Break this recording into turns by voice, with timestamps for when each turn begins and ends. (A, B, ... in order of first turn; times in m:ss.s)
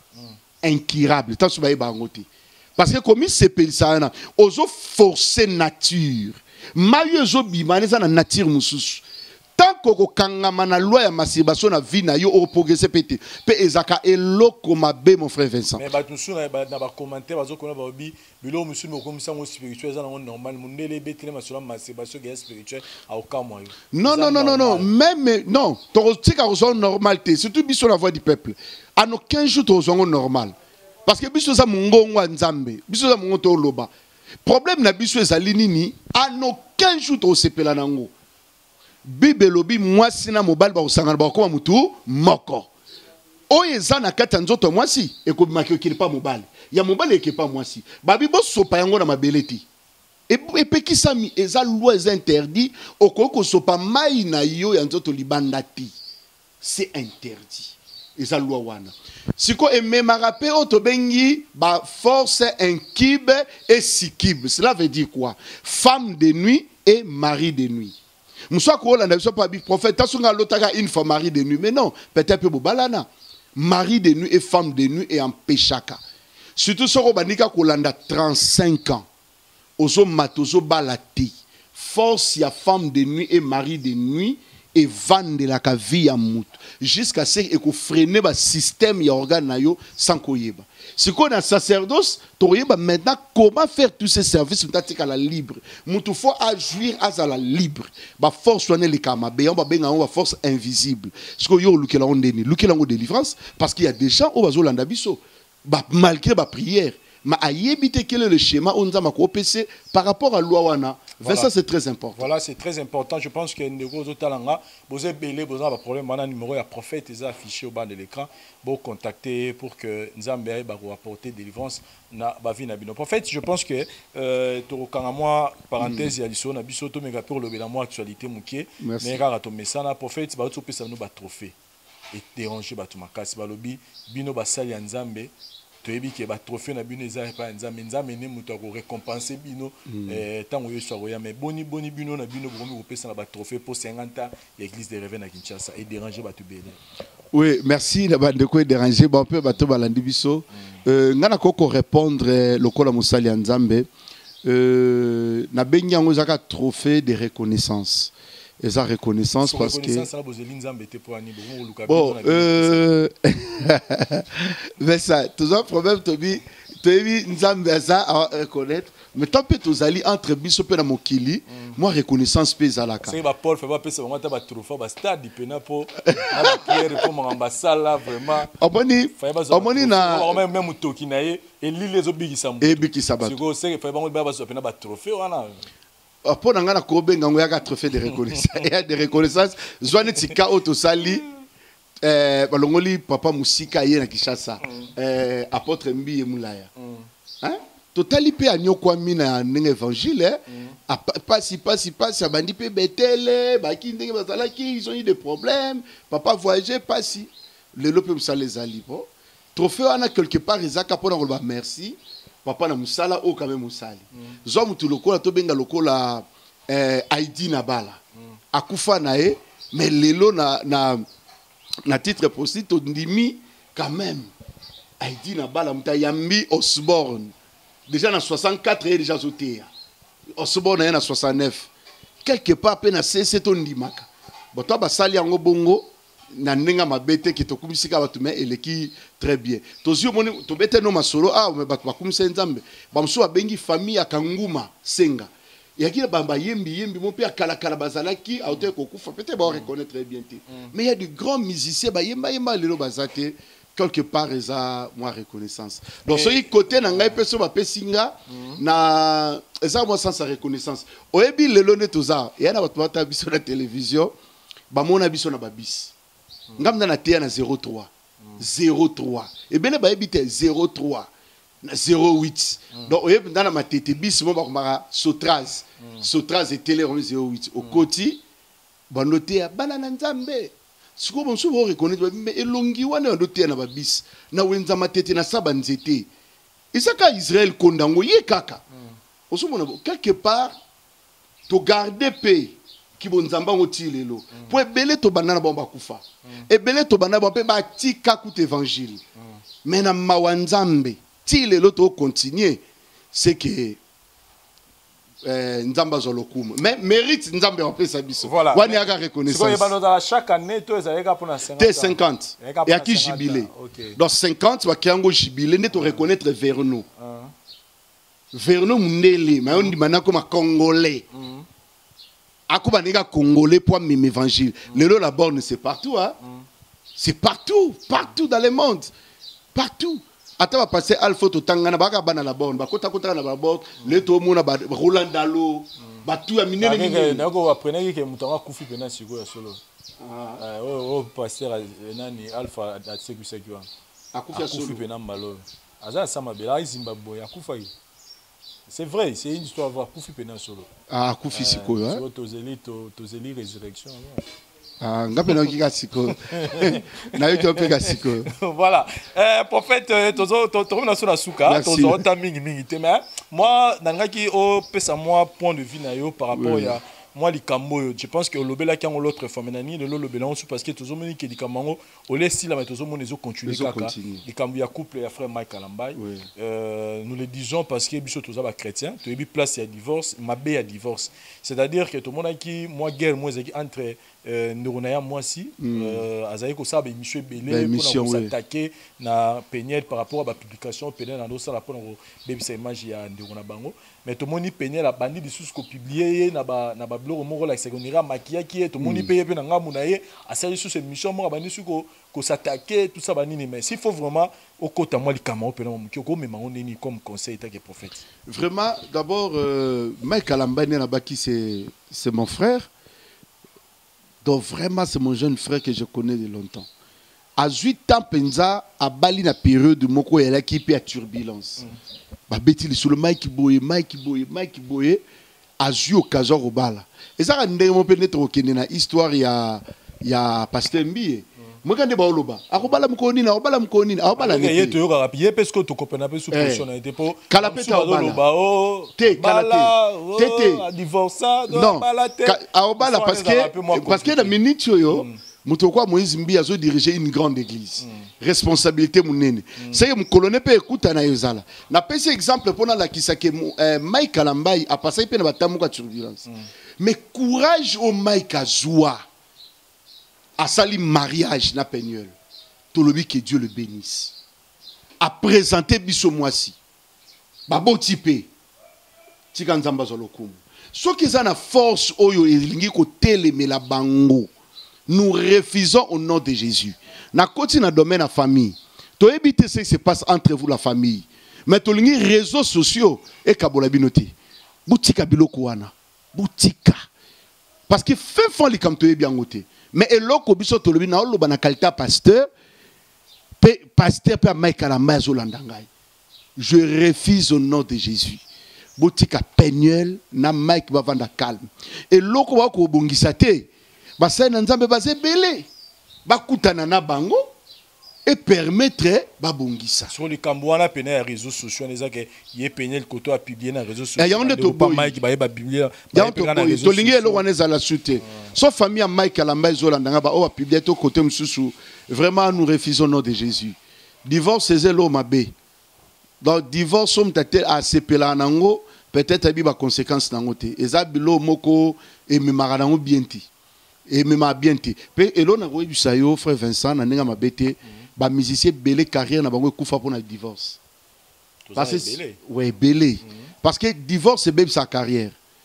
0:00.6-0:09.0 A
0:09.6-0:15.8 A
0:15.8-0:24.9 B
0:23.9-0:30.5 A
0:31.0-0:33.9 A
0:34.4-0:38.1 A
0:39.0-0:42.7 A
0:43.5-0:49.6 A
0:50.3-0:55.9 A
0:56.6-1:07.9 A
1:08.5-1:16.0 A
1:16.6-1:19.0 A
1:19.8-1:52.2 A
1:51.2-1:51.5 B
1:52.2-2:11.5 B
2:05.8-2:06.1 A
2:08.8-2:09.2 A
2:12.1-2:26.8 B
2:19.9-2:20.2 A
2:27.3-2:33.9 A
2:34.4-2:40.0 A
2:39.4-2:42.8 B
2:41.9-2:53.2 A
2:53.0-2:58.5 B
2:56.1-2:56.8 A
2:58.6-3:00.4 A
2:59.2-3:05.6 B
3:02.6-3:03.4 A
3:06.2-3:11.2 A
3:12.0-3:16.7 A
3:16.8-3:17.1 B
3:17.4-3:38.0 A
3:38.5-3:41.0 A
3:41.8-3:44.3 A
3:45.0-3:47.3 A
3:47.9-3:49.7 A
3:50.4-3:51.7 A
3:52.2-4:24.1 A
4:16.1-4:16.4 B
4:18.3-4:18.6 B
4:24.7-4:25.9 A
4:26.6-4:31.1 A
4:31.6-4:38.2 A
4:38.9-4:46.1 A
4:46.7-4:48.6 A
4:49.3-4:50.5 A
4:51.5-4:59.0 A
4:59.6-5:02.6 A
5:03.1-5:03.8 A
5:05.2-5:09.7 A
5:08.2-5:14.0 B
5:11.6-5:16.8 A
5:15.8-5:16.0 B
5:17.0-5:17.3 B
5:18.3-5:21.0 A
5:21.1-5:21.4 B
5:22.5-5:26.2 A
5:27.0-5:28.9 A
5:29.5-5:37.2 A
5:36.6-5:39.6 B
5:40.0-5:40.4 A
5:40.4-5:43.7 B
5:44.1-5:44.8 A
5:44.3-5:47.7 B
5:48.7-5:50.7 B
5:50.9-5:52.0 A
5:51.3-5:54.2 B
5:54.8-5:58.3 A
5:56.1-6:48.0 B
6:01.4-6:02.0 A
6:06.3-6:06.8 A
6:13.4-6:14.2 A
6:16.0-6:16.2 A
6:25.6-6:26.0 A
6:27.4-6:28.3 A
6:38.8-6:39.1 A
6:48.3-6:52.7 A
6:54.2-6:56.7 A
6:57.4-7:01.6 A
7:02.3-7:05.0 A
7:05.6-7:14.8 A
7:14.2-7:25.2 B
7:16.3-7:16.6 A
7:17.3-7:18.2 A
7:19.0-7:20.6 A
7:21.5-7:36.3 A
7:27.8-7:28.1 B
7:29.6-7:29.8 B
7:36.8-7:39.0 A
7:40.4-7:42.1 A
7:42.7-7:44.1 A
7:45.0-7:46.6 A
7:47.5-7:48.3 A
7:49.3-7:54.3 A
7:54.9-8:04.1 A
8:04.7-8:06.8 A
8:07.7-8:12.3 A
8:13.4-8:15.7 A
8:16.4-8:18.2 A
8:18.8-8:25.5 A
8:26.0-8:27.2 A
8:28.0-8:29.9 A
8:29.9-8:37.2 B
8:34.0-8:35.0 A
8:35.9-8:45.3 A
8:46.2-8:53.3 A
8:53.9-9:00.6 A
9:01.5-9:02.2 B
9:01.6-9:05.1 A